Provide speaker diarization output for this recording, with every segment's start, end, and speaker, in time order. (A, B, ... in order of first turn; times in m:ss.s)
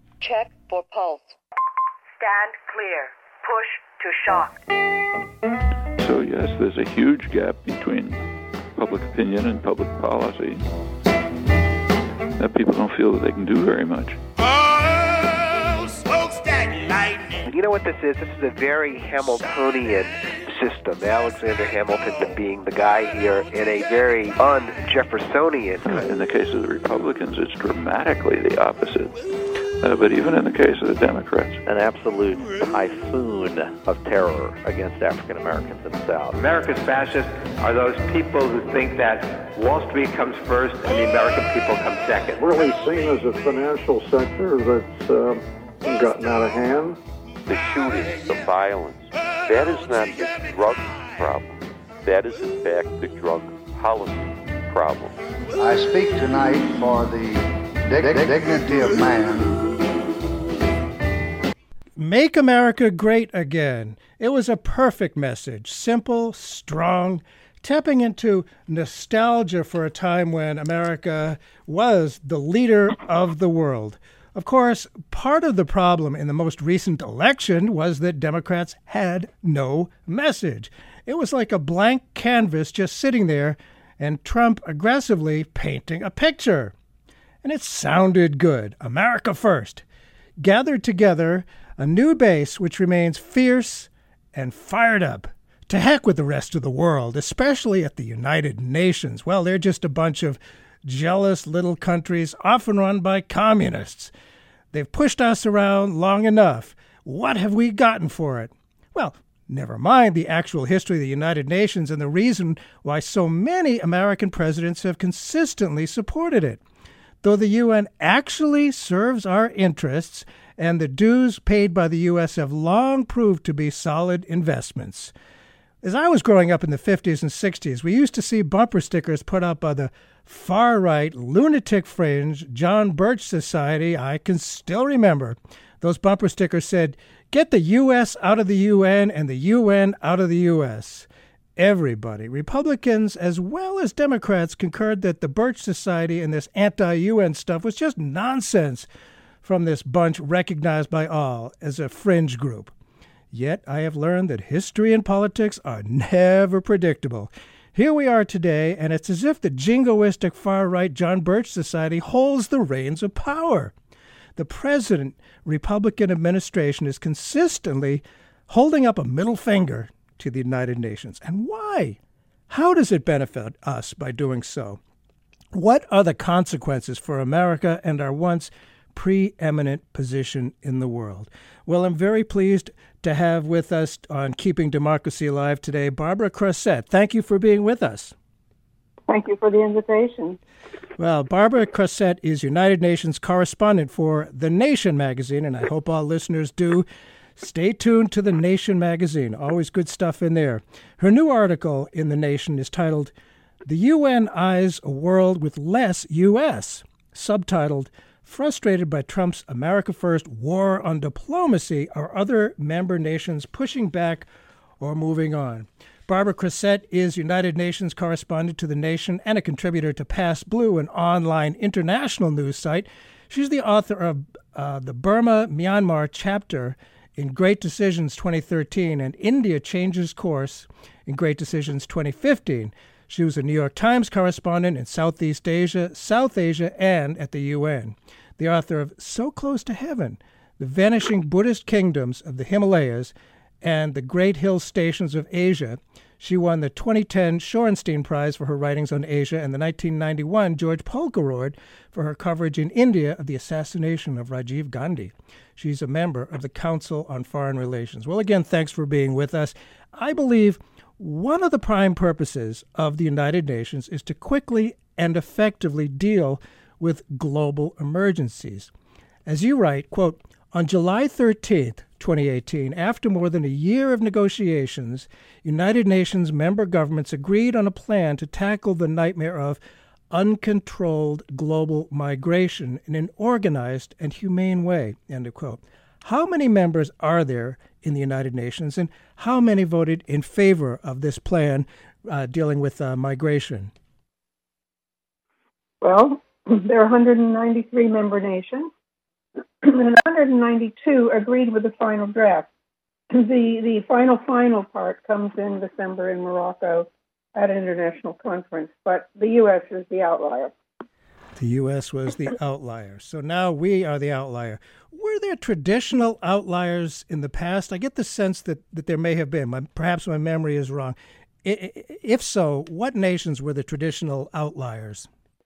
0:00.2-0:01.4 A
0:02.2-0:04.6 A
0:06.0-0:10.7 B
0:12.4-0:14.2 B
0:17.4-0:26.0 C
0:25.9-0:29.2 B
0:29.8-0:31.6 B
0:31.7-0:36.4 D
0:36.4-0:42.4 E
0:42.4-0:47.0 F
0:47.5-0:55.2 G
0:55.6-0:59.6 H
1:02.0-1:26.7 I
1:27.4-1:29.8 I
1:30.4-1:44.1 I
1:44.7-1:56.6 I
1:57.2-2:05.1 I
2:05.8-2:28.9 I
2:29.4-2:32.7 I
2:33.3-2:43.7 I
2:44.4-2:52.0 I
2:52.5-2:54.8 I
2:55.5-3:08.2 I
3:09.1-3:10.4 J
3:11.0-3:16.9 I
3:17.4-3:23.1 I
3:23.7-3:34.3 I
3:34.8-4:28.7 I
4:29.3-4:39.6 I
4:40.1-4:53.7 I
4:55.8-4:58.7 J
4:59.6-5:02.5 J
5:03.1-5:10.5 J
5:11.4-5:25.1 I